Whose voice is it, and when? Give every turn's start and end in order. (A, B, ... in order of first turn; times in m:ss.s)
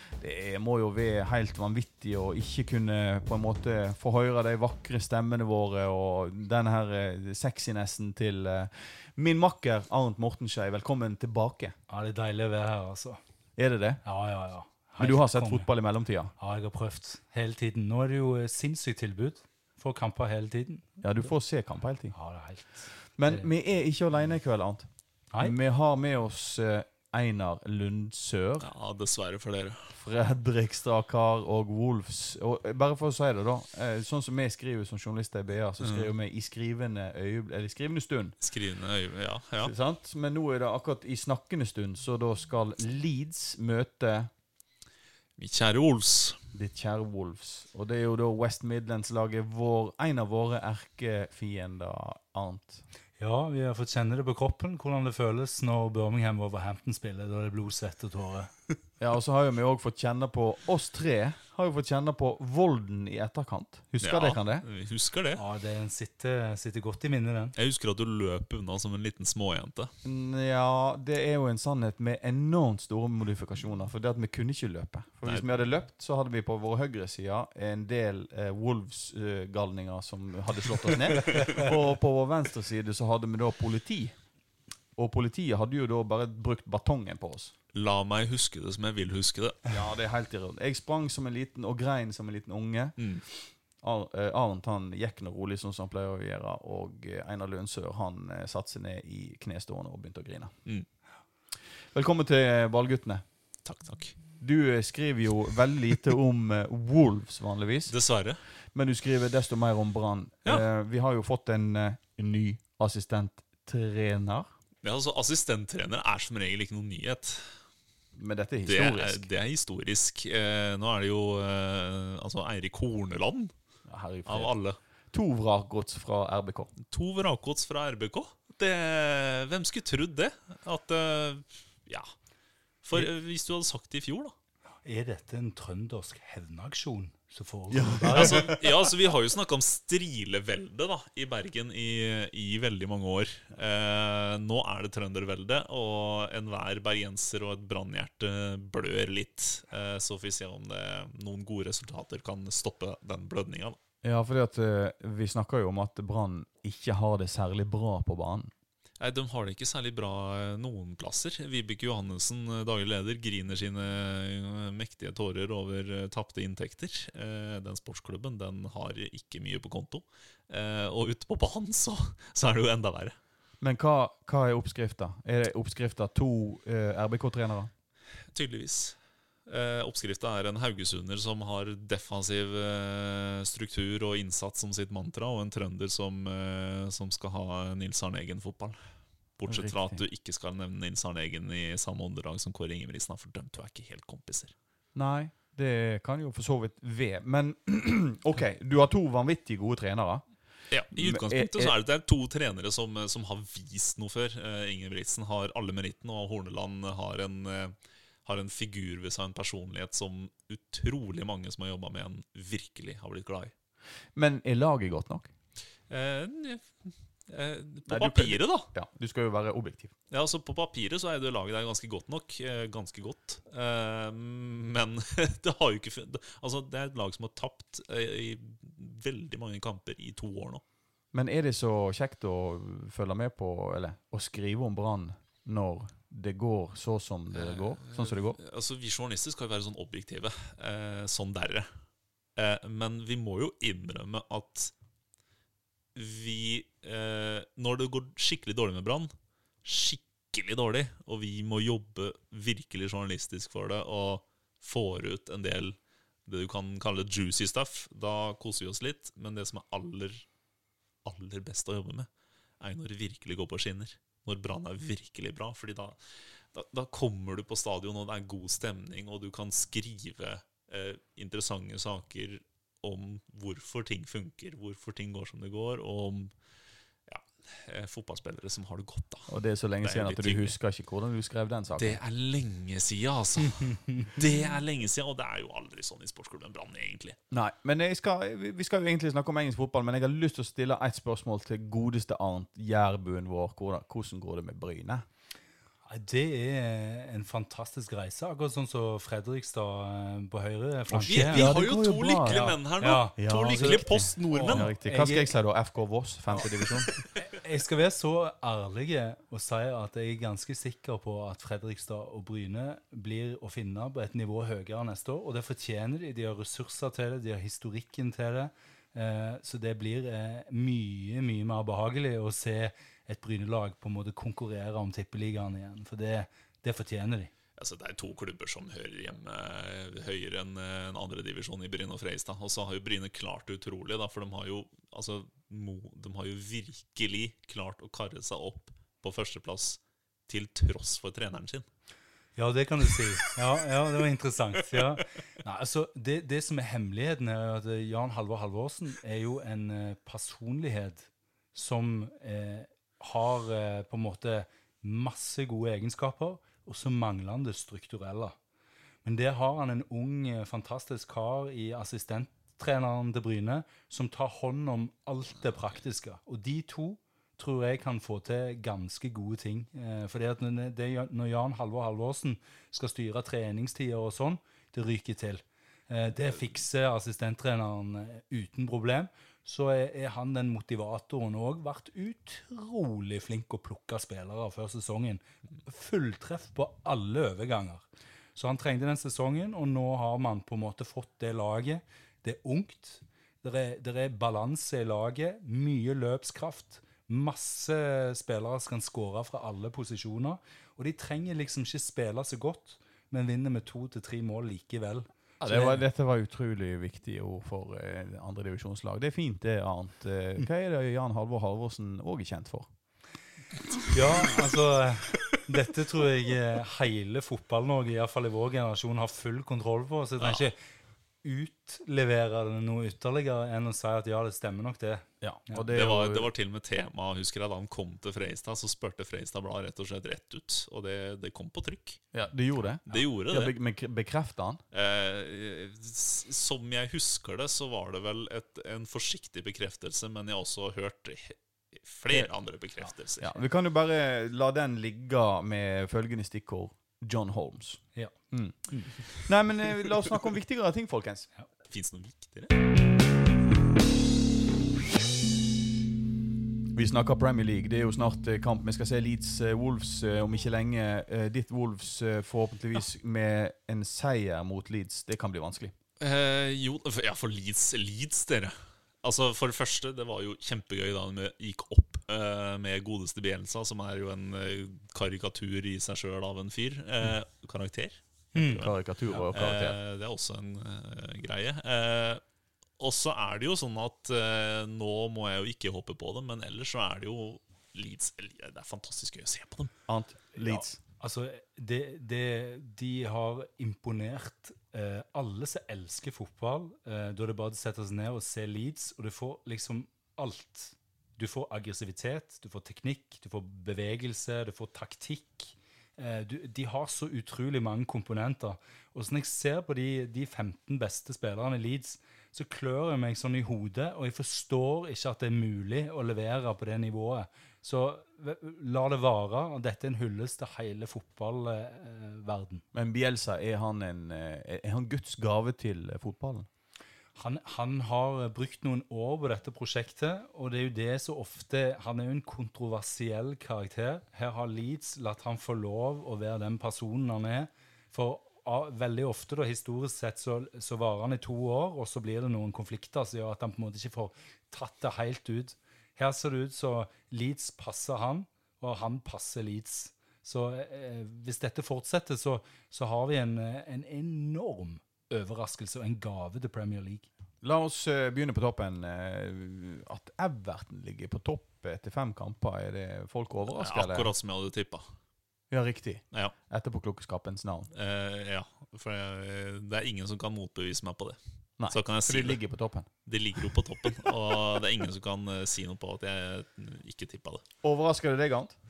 0:00.2-0:11.7 A
0:11.9-0:13.2 B
0:13.6-0:14.0 A
0:14.0-0:15.7 B
0:15.0-0:16.3 A
0:16.4-0:20.9 B
0:21.0-0:22.2 A
0:22.1-0:23.5 B
0:23.1-0:28.7 A
0:28.6-0:30.0 C
0:30.0-0:38.4 A
0:35.8-0:36.1 C
0:38.4-0:39.7 C
0:39.6-0:44.3 A
0:45.4-0:46.4 C
0:46.5-0:52.8 A
0:53.2-0:58.6 B
0:59.0-1:04.6 A
1:04.0-1:05.4 C
1:05.4-1:07.6 B
1:07.6-1:09.9 C
1:10.0-1:24.2 A
1:15.2-1:15.5 C
1:25.0-1:27.5 A
1:27.7-1:29.7 C
1:29.7-1:40.5 A
1:33.0-1:33.2 C
1:41.9-1:43.2 A
1:43.6-1:44.2 C
1:44.4-1:47.9 A
1:47.9-1:48.4 C
1:48.7-1:54.5 A
1:54.8-1:57.6 C
1:58.2-1:59.3 A
1:58.7-2:03.5 C
2:03.9-2:04.5 A
2:04.2-2:04.8 C
2:05.1-2:06.7 A
2:06.9-2:12.1 C
2:12.8-2:14.3 C
2:14.8-2:18.5 B
2:17.7-2:18.5 A
2:18.2-2:33.8 C
2:34.0-2:38.5 A
2:39.0-2:53.2 C
2:53.6-2:57.7 A
2:58.3-3:08.8 C
3:09.4-3:14.5 C
3:09.5-3:10.0 A
3:15.0-3:20.3 A
3:20.7-3:27.7 C
3:20.9-3:21.7 A
3:28.2-3:33.5 C
3:34.2-3:35.3 A
3:35.9-3:38.7 C
3:37.9-3:39.9 A
3:40.1-3:50.6 C
3:51.1-3:58.4 A
3:57.4-4:01.7 C
4:02.4-4:04.7 C
4:06.0-4:09.1 C
4:09.6-4:20.2 C
4:21.0-4:22.1 C
4:22.6-4:36.4 C
4:37.1-4:40.5 C
4:39.3-4:42.0 A
4:41.8-4:47.2 C
4:47.3-4:55.0 A
4:55.9-5:01.6 B
5:00.9-5:02.6 A
5:01.0-5:04.7 C
5:02.3-5:05.3 B
5:03.2-5:06.9 A
5:06.6-5:07.0 C
5:07.1-5:27.3 B
5:27.6-5:41.6 C
5:42.4-5:58.4 B
5:44.7-5:45.0 C
5:59.0-6:45.8 B
6:45.4-6:52.7 A
6:53.9-7:00.6 B
7:01.2-7:05.6 B
7:05.2-7:06.3 A
7:05.7-7:12.1 C
7:12.1-7:14.6 A
7:12.9-7:13.6 C
7:14.7-7:23.4 C
7:23.2-7:31.3 A
7:28.7-7:29.0 B
7:31.7-7:32.5 C
7:36.7-7:45.8 A
7:46.0-7:58.8 C
7:58.4-7:59.3 B
7:58.6-7:59.8 A
7:59.3-8:02.2 C
8:02.8-8:09.7 C
8:09.9-8:10.8 A
8:10.4-8:42.6 B
8:42.7-8:46.5 A
8:47.2-9:17.1 B
9:17.4-9:24.1 A
9:23.5-9:25.0 C
9:25.5-9:27.7 A
9:27.7-9:31.2 C
9:31.6-9:32.9 A
9:31.7-9:32.4 C
9:33.1-9:37.4 C
9:37.6-9:38.5 A